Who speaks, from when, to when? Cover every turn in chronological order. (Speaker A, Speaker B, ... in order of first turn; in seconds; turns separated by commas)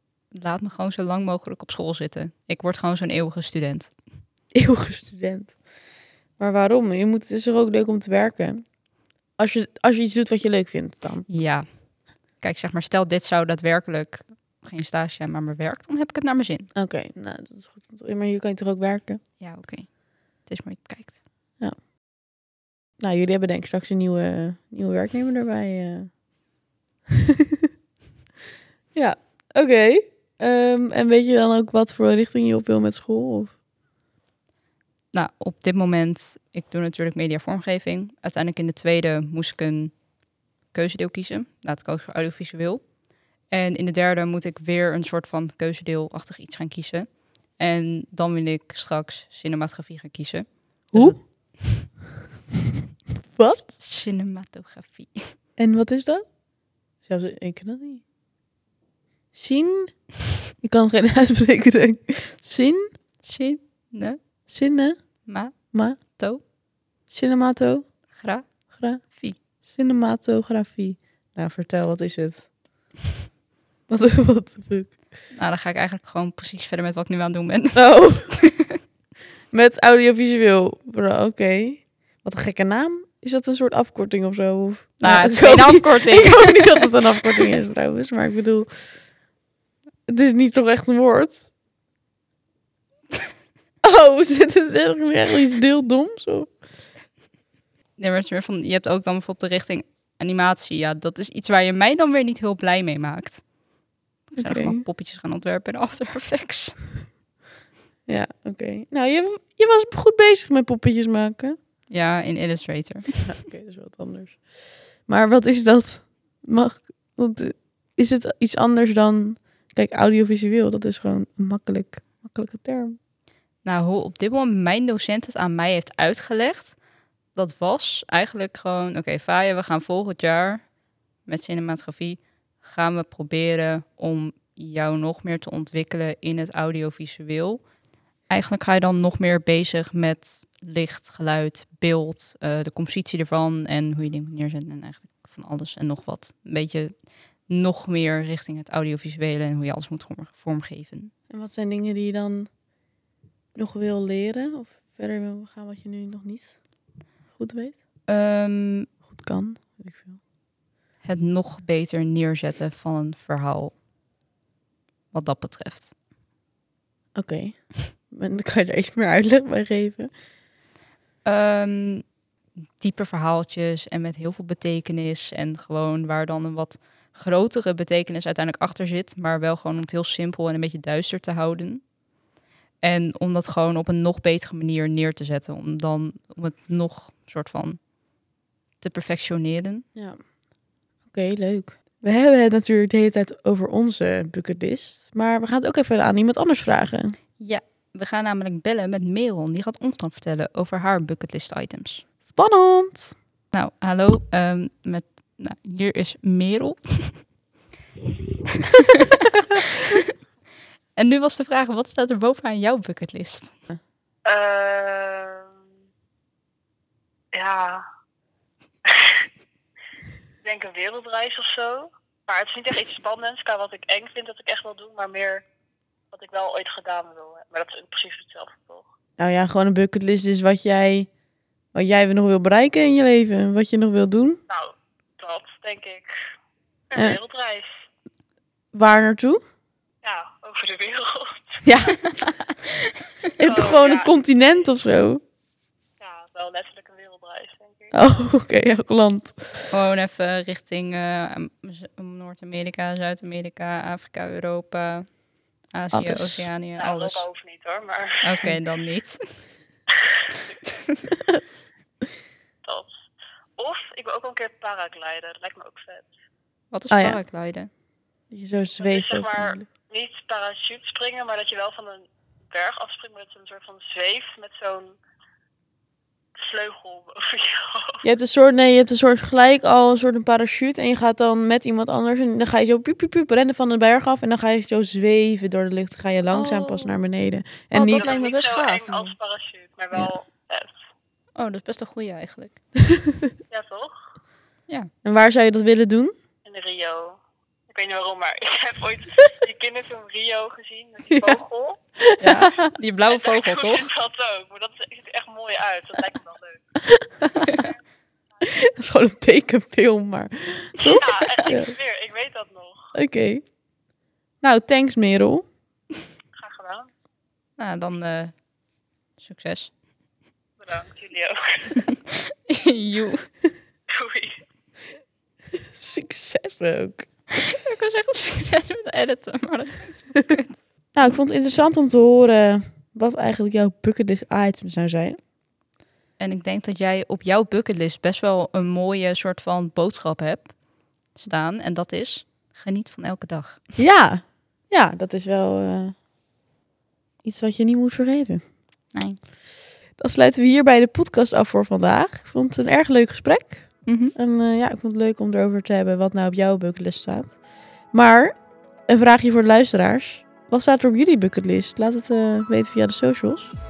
Speaker A: 0.3-3.9, Speaker B: 4.5-5.6, Speaker B: 6.4-8.7, Speaker B: 9.4-11.3, Speaker A: 11.3-11.7, Speaker A: 12.4-16.7, Speaker B: 16.7-19.2, Speaker A: 19.4-21.2, Speaker B: 23.0-26.1, Speaker B: 28.9-33.6, Speaker A: 35.1-40.0, Speaker A: 40.7-42.9, Speaker A: 43.5-51.9, Speaker B: 50.9-51.6, Speaker B: 53.4-53.7, Speaker A: 53.8-55.4, Speaker B: 55.6-56.3, Speaker B: 57.0-58.0, Speaker B: 59.4-60.0, Speaker B: 60.6-62.9, Speaker A: 63.2-64.2, Speaker B: 64.5-65.0, Speaker A: 65.2-66.4, Speaker B: 65.7-66.0, Speaker B: 67.1-67.9, Speaker A: 68.1-68.5, Speaker B: 68.7-69.0, Speaker A: 69.0-69.4, Speaker B: 69.6-72.5, Speaker B: 73.9-75.0, Speaker A: 75.3-78.8, Speaker B: 77.7-78.4, Speaker B: 79.5-88.7, Speaker A: 85.0-87.4, Speaker B: 90.1-91.5, Speaker B: 93.8-96.5, Speaker A: 98.0-103.4, Speaker A: 104.3-106.8, Speaker B: 104.4-104.8, Speaker B: 108.1-111.6, Speaker A: 111.9-113.2, Speaker B: 113.2-114.4, Speaker B: 115.1-123.0, Speaker A: 123.6-126.8, Speaker A: 127.3-130.7, Speaker A: 131.2-137.6, Speaker A: 138.3-146.9, Speaker A: 147.5-151.1, Speaker B: 151.3-152.5, Speaker B: 153.6-156.6, Speaker B: 157.4-157.8, Speaker A: 158.1-158.9, Speaker B: 159.1-160.2, Speaker A: 161.0-163.7, Speaker A: 165.1-165.9, Speaker B: 167.1-170.1, Speaker A: 171.2-172.1, Speaker A: 172.8-181.8, Speaker A: 182.8-187.8, Speaker A: 188.8-189.9, Speaker B: 189.9-190.2, Speaker B: 191.1-197.1, Speaker A: 197.4-202.0, Speaker B: 202.2-203.2, Speaker A: 203.5-207.2, Speaker A: 208.5-210.0, Speaker A: 210.9-213.6, Speaker C: 214.2-215.5, Speaker C: 217.3-217.8, Speaker C: 218.8-219.2, Speaker C: 220.4-225.4, Speaker C: 226.1-228.8, Speaker B: 229.2-231.1, Speaker B: 231.7-234.4, Speaker C: 234.5-236.1, Speaker C: 236.9-237.7, Speaker B: 238.7-239.4, Speaker C: 240.0-242.0, Speaker B: 241.6-242.5, Speaker C: 243.4-244.1, Speaker B: 243.4-245.2, Speaker C: 246.0-248.0, Speaker B: 247.9-249.7, Speaker A: 249.7-255.1, Speaker A: 255.7-257.2, Speaker B: 255.9-256.5, Speaker C: 256.8-258.4, Speaker A: 258.2-259.2, Speaker C: 260.0-260.2, Speaker A: 260.6-261.0, Speaker C: 262.6-262.9, Speaker C: 263.6-266.1, Speaker A: 266.7-267.7, Speaker B: 266.9-267.2, Speaker B: 268.3-269.6, Speaker C: 268.8-274.9, Speaker C: 276.4-278.0, Speaker B: 278.0-288.2, Speaker A: 286.3-287.0, Speaker A: 287.7-289.1, Speaker C: 287.8-290.7, Speaker A: 291.4-292.6, Speaker C: 293.5-293.9, Speaker B: 295.1-296.1, Speaker C: 296.4-297.2, Speaker C: 297.7-301.8, Speaker B: 302.0-302.7, Speaker A: 302.2-303.9, Speaker C: 303.1-306.6, Speaker B: 306.8-307.6, Speaker B: 308.4-311.7, Speaker C: 311.0-312.9, Speaker B: 312.9-313.4, Speaker B: 314.4-315.4, Speaker C: 316.4-316.9, Speaker A: 317.6-318.4, Speaker A: 319.2-319.7, Speaker C: 320.6-321.9, Speaker A: 321.7-323.3, Speaker C: 323.9-324.4, Speaker B: 325.6-327.1, Speaker A: 327.4-330.6, Speaker B: 330.9-335.2, Speaker A: 336.2-340.6, Speaker A: 341.1-343.6, Speaker B: 343.8-345.9, Speaker B: 347.2-348.4, Speaker B: 350.0-358.4, Speaker A: 353.9-354.1, Speaker B: 358.9-363.5